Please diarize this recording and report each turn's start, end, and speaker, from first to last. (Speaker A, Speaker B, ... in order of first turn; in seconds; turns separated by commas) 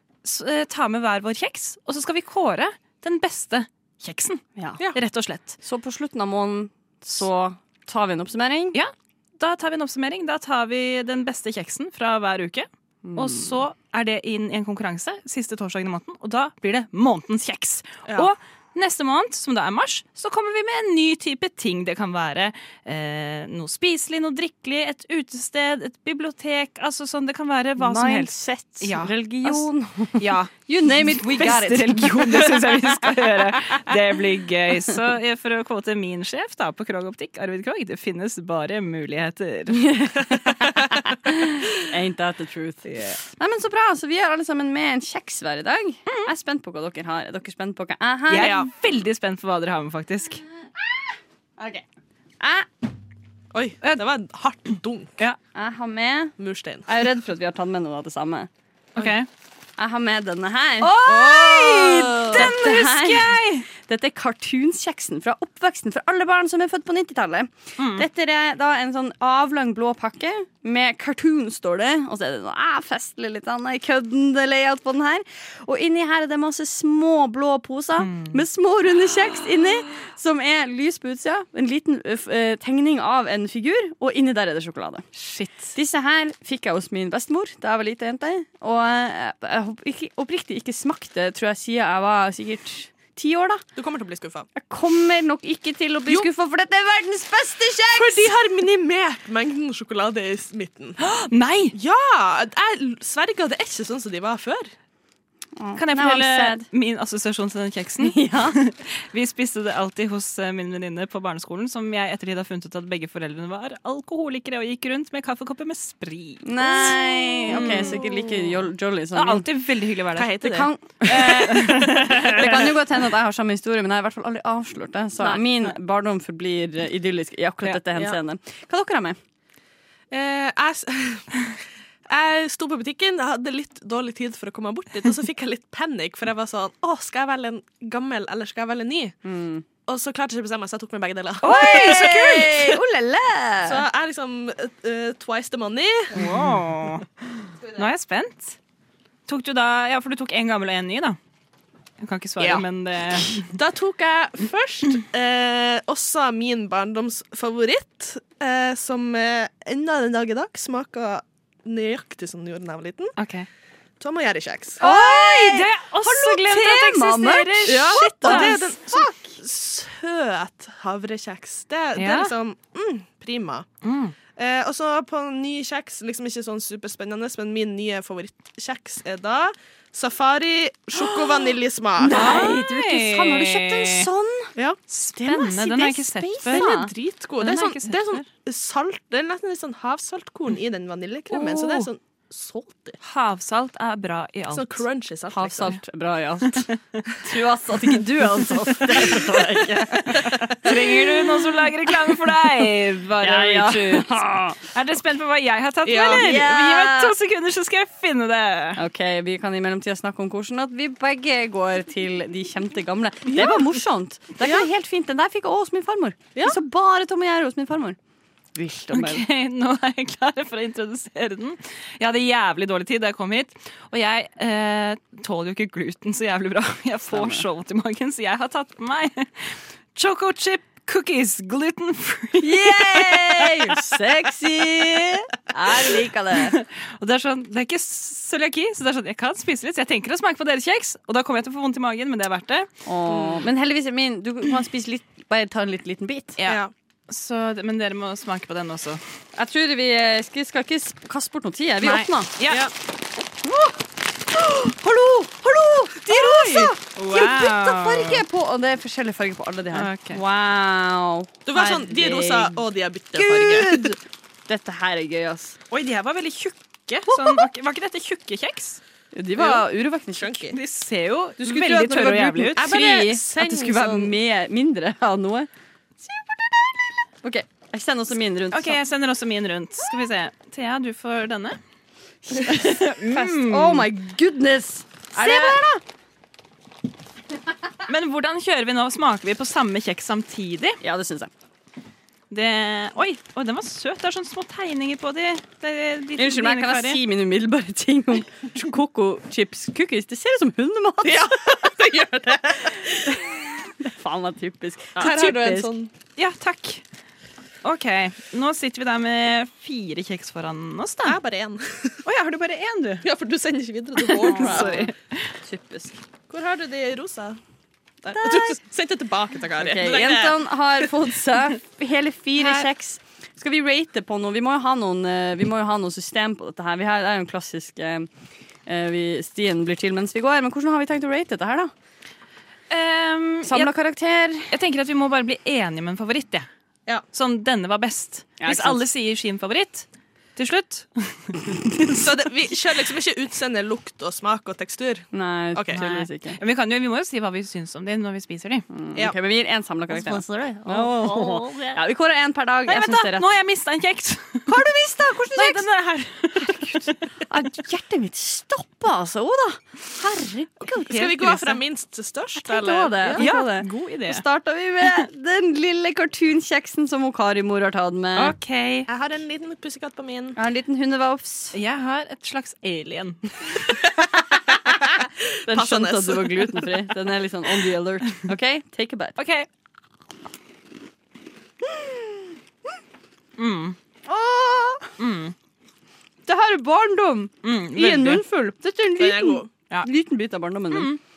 Speaker A: 0.2-5.6, Speaker B: 5.6-8.8, Speaker A: 8.7-40.3, Speaker B: 13.0-13.5, Speaker B: 27.8-33.4, Speaker B: 39.7-42.8, Speaker A: 42.8-43.2, Speaker B: 43.4-48.5, Speaker A: 48.3-50.4, Speaker C: 48.3-48.7, Speaker B: 51.6-51.8, Speaker B: 52.4-52.7, Speaker C: 53.5-55.1, Speaker B: 55.5-56.3, Speaker C: 56.4-56.9, Speaker B: 56.9-58.5, Speaker A: 58.9-59.3, Speaker B: 59.8-85.0, Speaker A: 60.8-63.6, Speaker A: 67.8-68.0, Speaker A: 78.0-78.4, Speaker A: 85.2-85.7, Speaker B: 85.7-93.6, Speaker C: 93.8-94.5, Speaker B: 94.5-98.3, Speaker C: 97.9-101.0, Speaker A: 101.0-101.7, Speaker C: 101.7-104.7, Speaker B: 105.6-106.6, Speaker A: 105.8-118.1, Speaker B: 108.0-108.6, Speaker B: 116.4-119.5, Speaker C: 116.8-118.4, Speaker A: 119.1-122.7, Speaker C: 120.2-121.6, Speaker B: 120.4-129.2, Speaker A: 125.2-125.7, Speaker A: 127.6-128.1, Speaker C: 130.1-131.4, Speaker C: 132.1-139.2, Speaker B: 139.2-139.6, Speaker C: 139.8-142.7, Speaker B: 141.4-143.8, Speaker A: 141.4-142.5, Speaker C: 143.6-146.2, Speaker A: 146.1-147.0, Speaker B: 146.2-146.5, Speaker A: 147.7-148.6, Speaker A: 149.3-151.2, Speaker A: 152.0-153.5, Speaker C: 152.4-152.6, Speaker C: 153.4-163.1, Speaker A: 163.2-163.5, Speaker C: 164.0-164.8, Speaker B: 164.8-169.1, Speaker A: 164.8-168.7, Speaker C: 167.7-173.7, Speaker A: 171.9-172.3, Speaker A: 173.8-174.1, Speaker C: 174.3-182.5, Speaker B: 182.0-184.5, Speaker A: 182.1-184.1, Speaker A: 184.9-186.7, Speaker B: 185.1-186.9, Speaker C: 186.5-193.0, Speaker A: 187.4-188.2, Speaker A: 191.3-191.9, Speaker A: 193.0-194.8, Speaker C: 194.5-195.8, Speaker B: 195.3-200.7, Speaker C: 200.1-200.4, Speaker A: 200.1-208.8, Speaker B: 203.2-204.6, Speaker C: 205.8-206.4, Speaker B: 206.0-207.1, Speaker B: 208.8-218.0, Speaker C: 213.3-213.6, Speaker C: 214.4-214.7, Speaker B: 218.5-219.2, Speaker A: 218.9-234.0, Speaker B: 227.1-227.4, Speaker B: 232.4-236.6, Speaker A: 236.5-243.2, Speaker B: 242.8-246.4, Speaker A: 246.4-249.0, Speaker C: 246.4-246.7, Speaker B: 249.3-252.3, Speaker A: 251.8-252.7, Speaker C: 252.5-252.7, Speaker B: 253.4-253.8, Speaker B: 254.3-262.6, Speaker C: 256.0-256.7, Speaker A: 256.9-258.2, Speaker A: 259.7-260.2, Speaker C: 261.4-263.9, Speaker B: 263.1-265.6, Speaker A: 265.7-268.8, Speaker B: 267.1-267.4, Speaker B: 269.1-270.5, Speaker C: 269.4-270.6, Speaker A: 270.5-272.6, Speaker B: 271.4-275.5, Speaker C: 272.5-274.1, Speaker B: 276.1-276.5, Speaker B: 277.2-278.8, Speaker A: 278.5-281.6, Speaker B: 282.3-285.8, Speaker A: 282.4-283.9, Speaker A: 285.1-285.6, Speaker A: 287.9-290.8, Speaker B: 290.8-291.3, Speaker A: 292.3-297.0, Speaker B: 296.2-301.5, Speaker C: 301.0-303.2, Speaker B: 303.8-305.7, Speaker C: 304.9-305.9, Speaker A: 306.1-306.8, Speaker A: 307.6-311.2, Speaker C: 311.0-312.0, Speaker A: 312.0-313.1, Speaker C: 313.0-314.9, Speaker A: 314.1-315.1, Speaker B: 314.2-314.9, Speaker B: 315.4-316.0, Speaker C: 316.3-317.4, Speaker C: 318.0-320.5, Speaker B: 318.1-318.6, Speaker B: 319.6-328.1, Speaker B: 328.6-331.7, Speaker A: 332.7-333.7, Speaker B: 333.4-334.5, Speaker A: 334.5-336.5, Speaker A: 337.1-342.0, Speaker B: 338.4-338.8, Speaker C: 341.9-345.8, Speaker B: 345.1-346.4, Speaker A: 345.7-348.6, Speaker B: 348.7-353.3, Speaker A: 349.9-351.8, Speaker A: 352.7-354.5, Speaker B: 354.5-355.6, Speaker A: 355.3-357.0, Speaker B: 356.4-360.9, Speaker C: 360.8-363.3, Speaker A: 360.8-361.5, Speaker B: 362.4-368.3, Speaker A: 363.1-364.2, Speaker A: 368.1-368.9, Speaker C: 368.9-370.4, Speaker B: 370.4-371.6, Speaker A: 371.5-373.6, Speaker C: 374.7-376.8, Speaker B: 375.4-379.1, Speaker A: 379.2-379.5, Speaker B: 381.6-382.2, Speaker A: 383.4-383.8, Speaker B: 384.1-384.9, Speaker A: 385.0-385.3, Speaker B: 386.2-390.9, Speaker A: 387.4-388.2, Speaker C: 388.9-389.5, Speaker A: 390.7-391.0